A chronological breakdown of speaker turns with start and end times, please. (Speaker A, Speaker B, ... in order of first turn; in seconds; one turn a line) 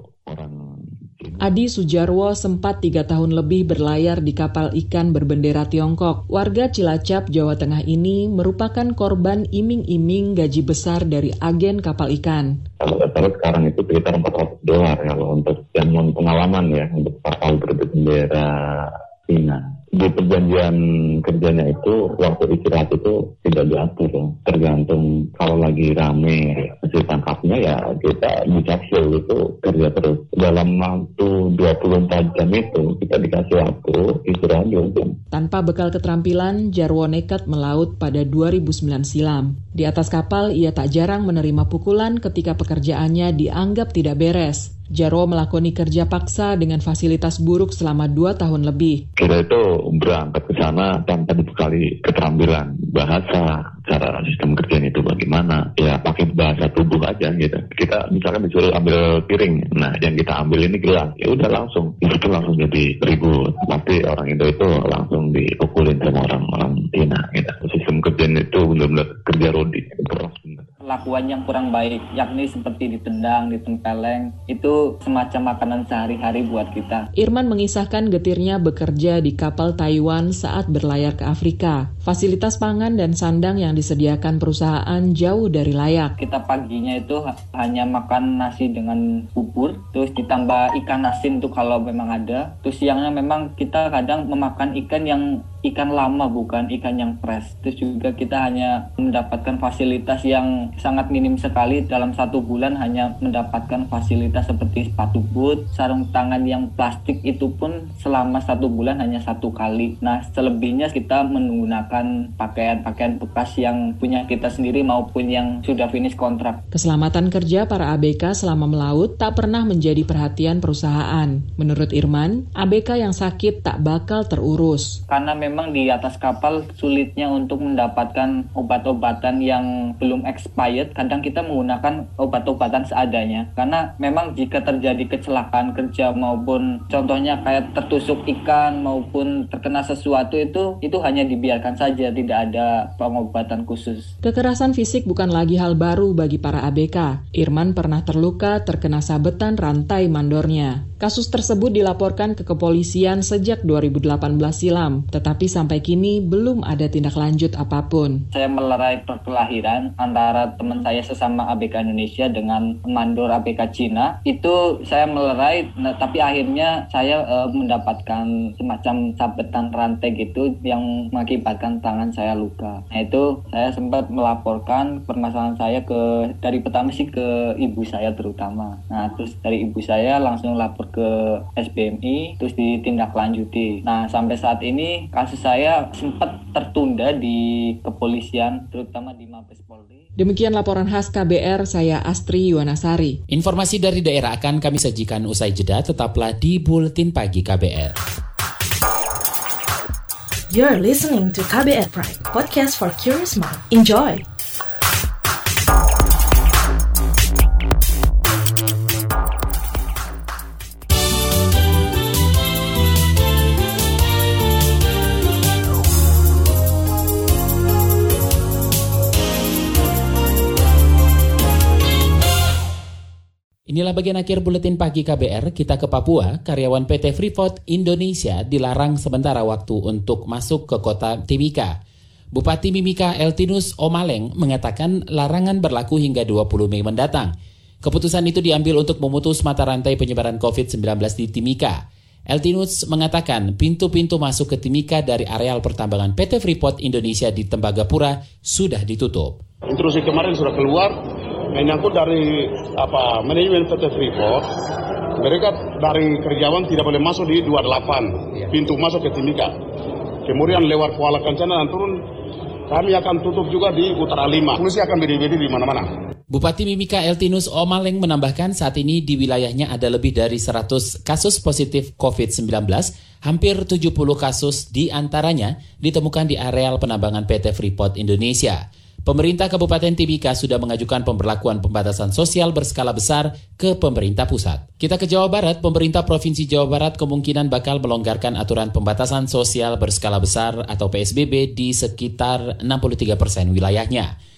Speaker A: 0.2-1.4
Speaker B: 1.4-12.6
Speaker A: 12.8-35.1
Speaker B: 35.3-49.0
Speaker A: 49.2-70.6
Speaker C: 70.8-77.1
Speaker B: 77.2-86.1
Speaker C: 86.2-116.6
Speaker B: 116.7-125.0
Speaker C: 125.1-144.1
Speaker B: 144.2-158.2
Speaker C: 158.3-190.1
Speaker B: 190.2-193.2
Speaker D: 193.3-198.0
Speaker E: 200.5-204.2
Speaker D: 223.7-231.8
Speaker D: 232.3-237.3
Speaker D: 237.8-249.4
Speaker F: 249.7-250.9
Speaker F: 251.5-254.4
Speaker F: 255.2-259.5
Speaker F: 260.2-262.0
Speaker F: 262.7-265.9
Speaker D: 266.3-294.1